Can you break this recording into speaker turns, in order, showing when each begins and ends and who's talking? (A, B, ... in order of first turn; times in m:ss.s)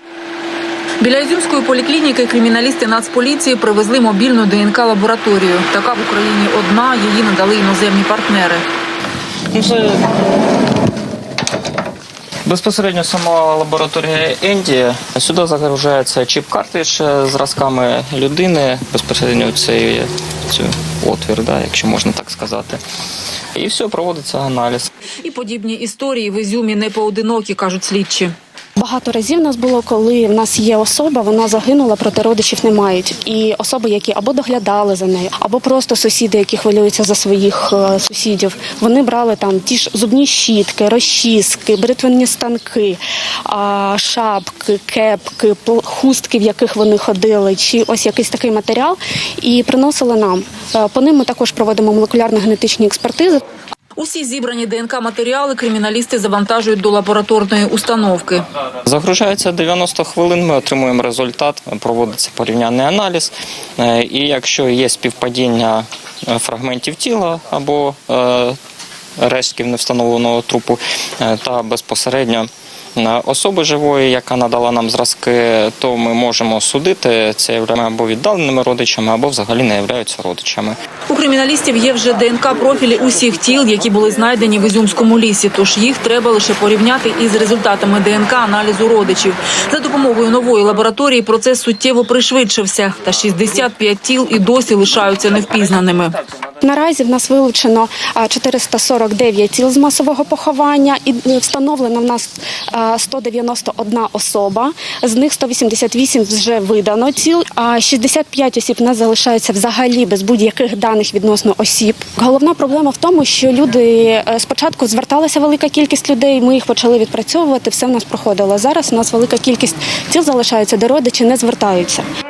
0:01.0-0:08.6 A
0:09.5-0:10.2 B
0:12.4-0:22.8 B
0:23.5-0:24.9 B
0:25.2-0:28.3 A
0:28.8-0:53.4 C
0:54.0-0:58.4 A
0:58.8-1:08.6 B
1:09.2-1:20.8 B
1:21.1-1:36.2 A
1:36.6-2:02.0 C